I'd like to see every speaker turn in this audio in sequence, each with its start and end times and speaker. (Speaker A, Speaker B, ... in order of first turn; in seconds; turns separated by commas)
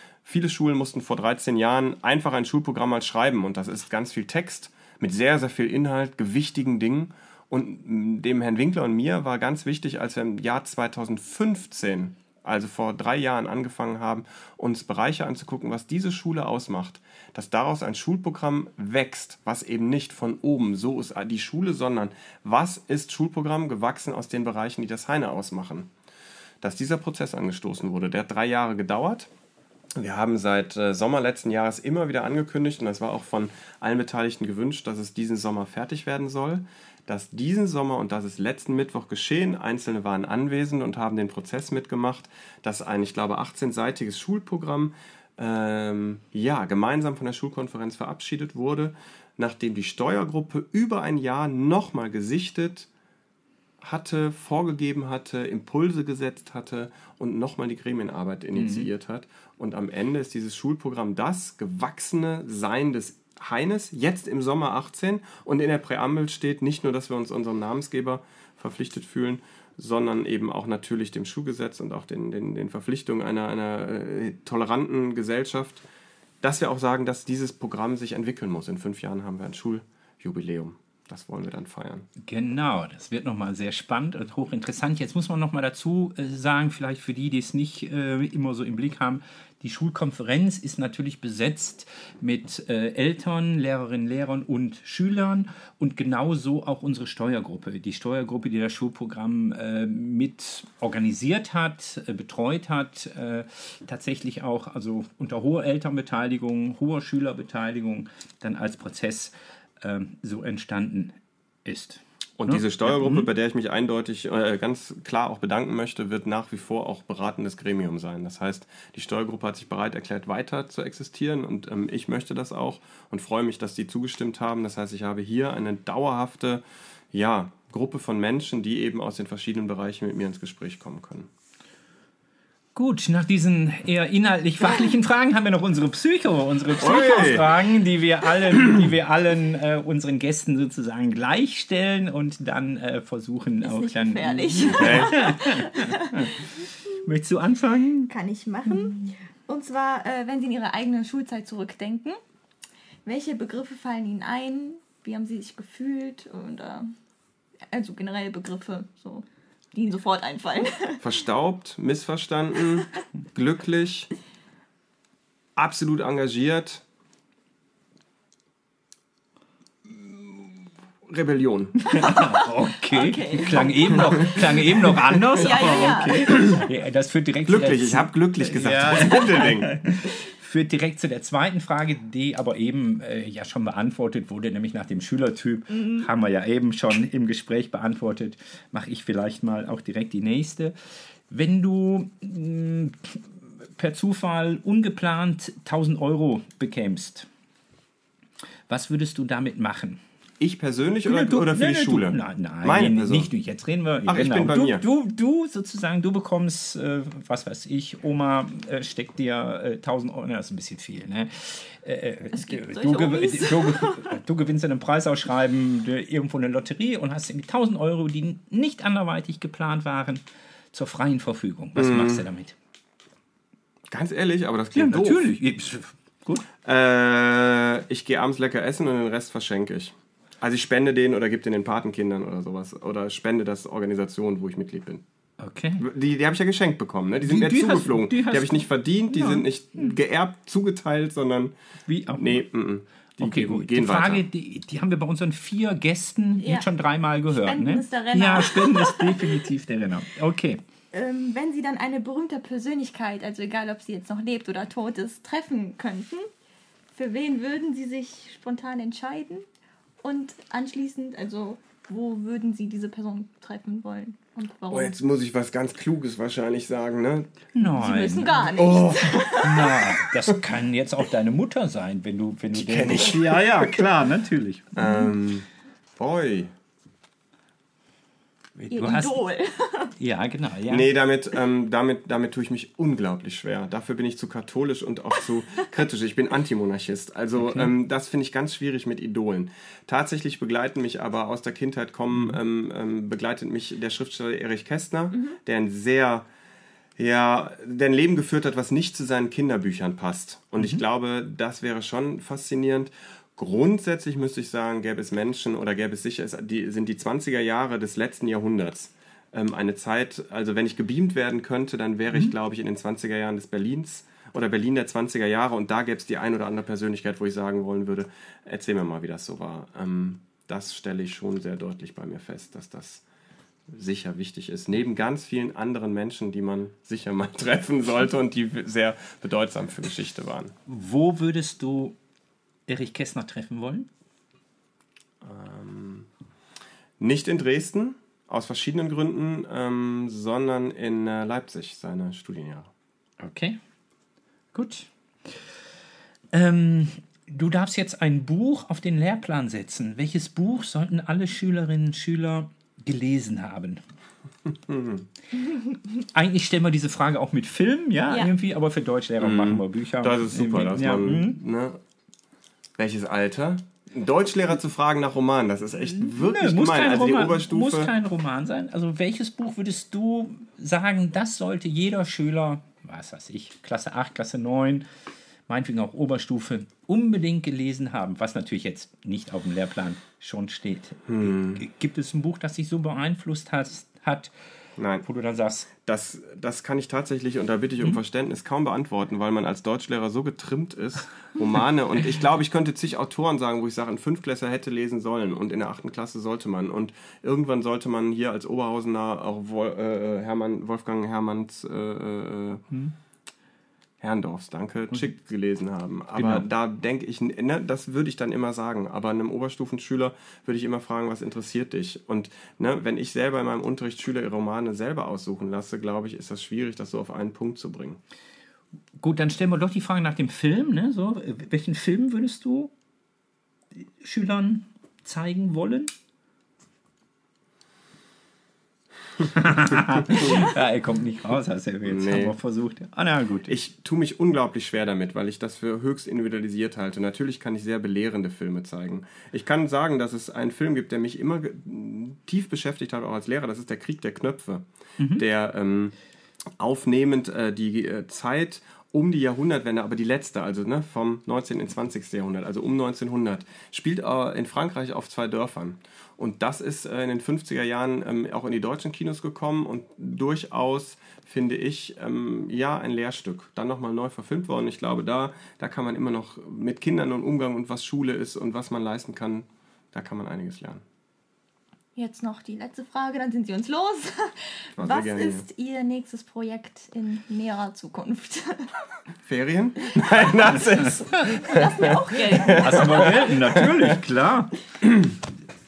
Speaker A: 0.2-25.9, Speaker A: 26.6-29.3, Speaker A: 29.9-52.9, Speaker A: 53.8-75.8, Speaker B: 58.5-58.9, Speaker A: 76.4-82.1, Speaker B: 82.2-113.3, Speaker A: 112.4-131.3, Speaker B: 132.8-148.1, Speaker A: 136.8-137.5, Speaker C: 143.6-146.5, Speaker A: 144.7-145.2, Speaker C: 148.1-152.2, Speaker B: 148.7-149.1, Speaker C: 153.1-156.9, Speaker C: 157.7-161.0, Speaker A: 161.0-164.1, Speaker A: 165.6-166.8, Speaker A: 171.1-172.0, Speaker B: 171.9-190.7, Speaker C: 171.9-174.1, Speaker A: 174.0-174.5, Speaker C: 175.3-176.5, Speaker A: 177.4-179.7, Speaker C: 185.7-186.1, Speaker B: 191.3-197.3, Speaker B: 198.7-200.0, Speaker A: 200.4-203.3, Speaker B: 201.1-220.2, Speaker A: 204.1-204.8, Speaker C: 212.3-214.1, Speaker B: 220.7-222.6, Speaker A: 221.7-222.3, Speaker A: 223.9-225.4, Speaker B: 224.7-226.4, Speaker A: 226.6-235.0, Speaker B: 235.4-235.8, Speaker A: 235.8-241.5, Speaker B: 237.3-239.9, Speaker B: 241.9-242.4, Speaker A: 242.2-244.2, Speaker B: 243.2-250.6, Speaker C: 246.4-246.7, Speaker C: 247.3-249.4, Speaker C: 250.9-256.3, Speaker C: 256.9-259.4, Speaker C: 260.0-264.9, Speaker A: 264.7-267.4, Speaker B: 267.5-268.4, Speaker C: 267.8-270.0, Speaker A: 268.5-269.2, Speaker B: 269.3-274.9, Speaker A: 272.5-273.8, Speaker A: 274.7-276.5, Speaker B: 278.6-279.2, Speaker C: 278.7-279.9, Speaker B: 280.0-280.9, Speaker A: 280.7-296.3, Speaker B: 287.4-287.7, Speaker C: 295.1-295.4, Speaker A: 297.0-323.0, Speaker A: 323.7-330.5, Speaker B: 330.7-331.9, Speaker B: 332.7-333.9, Speaker A: 335.2-336.1, Speaker A: 337.0-342.7, Speaker B: 343.2-343.6, Speaker B: 344.5-345.6, Speaker B: 346.3-353.8, Speaker A: 354.5-355.1, Speaker B: 356.0-361.4, Speaker A: 359.2-361.8, Speaker A: 362.8-367.9, Speaker B: 365.9-374.8, Speaker B: 375.5-384.3, Speaker A: 381.1-381.6, Speaker A: 384.8-385.1, Speaker B: 385.1-385.7, Speaker A: 385.8-402.6, Speaker A: 404.0-418.0, Speaker B: 406.2-406.4, Speaker B: 419.0-422.7, Speaker B: 424.0-425.9, Speaker B: 429.2-433.5, Speaker A: 429.9-430.5, Speaker A: 431.8-432.4, Speaker A: 433.5-445.9, Speaker B: 445.0-445.3, Speaker A: 446.6-470.8, Speaker C: 471.9-478.7, Speaker A: 474.8-475.4, Speaker A: 479.2-484.0, Speaker C: 481.4-483.2, Speaker B: 482.5-484.6, Speaker A: 484.8-485.2